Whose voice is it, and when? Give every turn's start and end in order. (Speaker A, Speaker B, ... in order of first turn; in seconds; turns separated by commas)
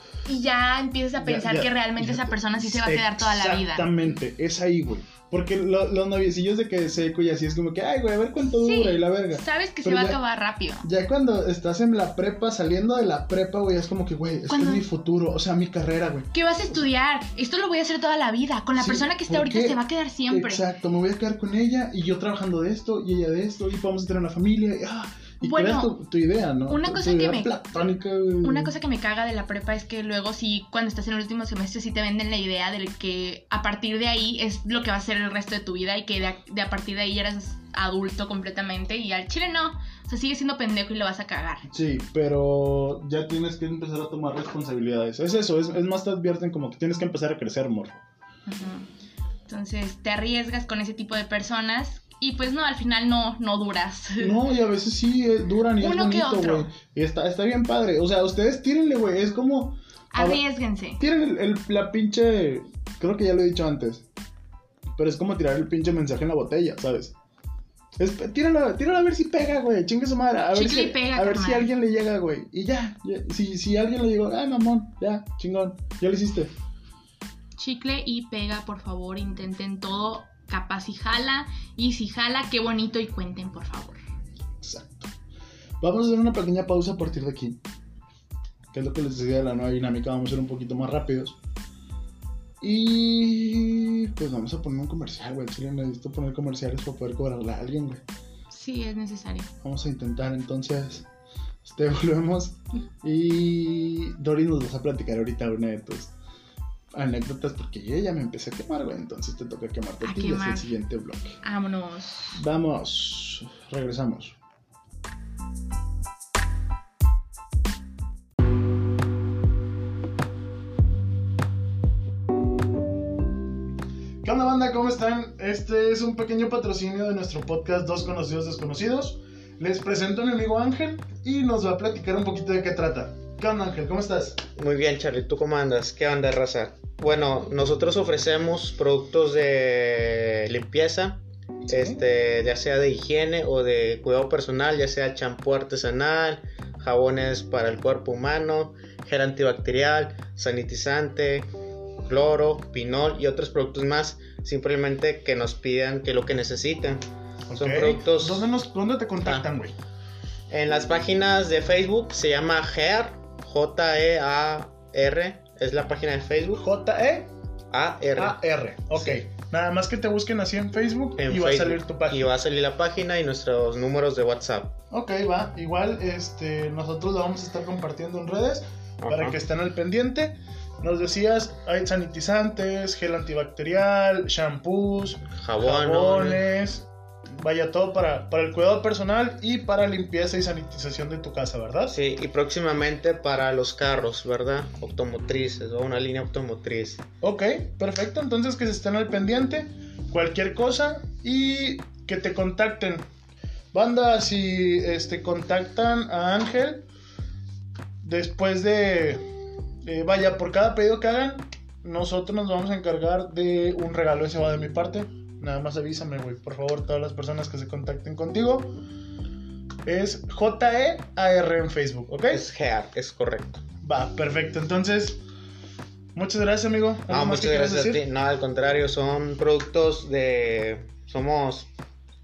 Speaker A: 0.2-3.9, Speaker B: 1.2-10.2, Speaker A: 8.4-10.9, Speaker B: 10.8-16.8, Speaker A: 14.5-14.8, Speaker A: 16.3-20.6, Speaker B: 18.8-28.7, Speaker A: 25.4-25.9, Speaker A: 26.7-27.6, Speaker A: 28.4-41.7, Speaker B: 41.7-48.0, Speaker A: 48.5-48.9, Speaker A: 49.5-54.4, Speaker B: 54.2-60.4, Speaker A: 55.8-56.7, Speaker A: 60.1-61.0, Speaker B: 61.0-64.0, Speaker B: 65.0-67.1, Speaker B: 68.0-76.5, Speaker A: 70.5-71.7, Speaker A: 77.6-84.0, Speaker B: 84.6-85.1, Speaker B: 85.8-87.6, Speaker B: 88.7-91.4, Speaker B: 92.6-98.0, Speaker A: 98.5-99.5, Speaker B: 99.6-101.1, Speaker B: 101.6-106.1, Speaker B: 106.9-111.4, Speaker A: 110.0-110.7, Speaker A: 111.4-112.4, Speaker B: 112.3-114.4, Speaker B: 124.2-134.4, Speaker C: 134.6-151.5, Speaker B: 141.7-142.0, Speaker C: 152.1-157.0, Speaker B: 157.5-159.7, Speaker C: 157.5-158.5, Speaker C: 160.5-166.6, Speaker B: 166.6-167.3, Speaker C: 167.7-168.4, Speaker B: 168.2-172.3, Speaker C: 168.9-169.2, Speaker C: 171.2-174.8, Speaker B: 174.9-191.9, Speaker C: 179.0-179.4, Speaker C: 185.4-186.4, Speaker C: 191.9-197.0, Speaker B: 197.2-203.1, Speaker B: 203.7-206.8, Speaker B: 208.0-209.2, Speaker B: 209.8-218.8, Speaker B: 219.8-222.4, Speaker C: 222.3-223.6, Speaker B: 223.8-225.2, Speaker B: 226.1-228.0, Speaker C: 227.1-231.7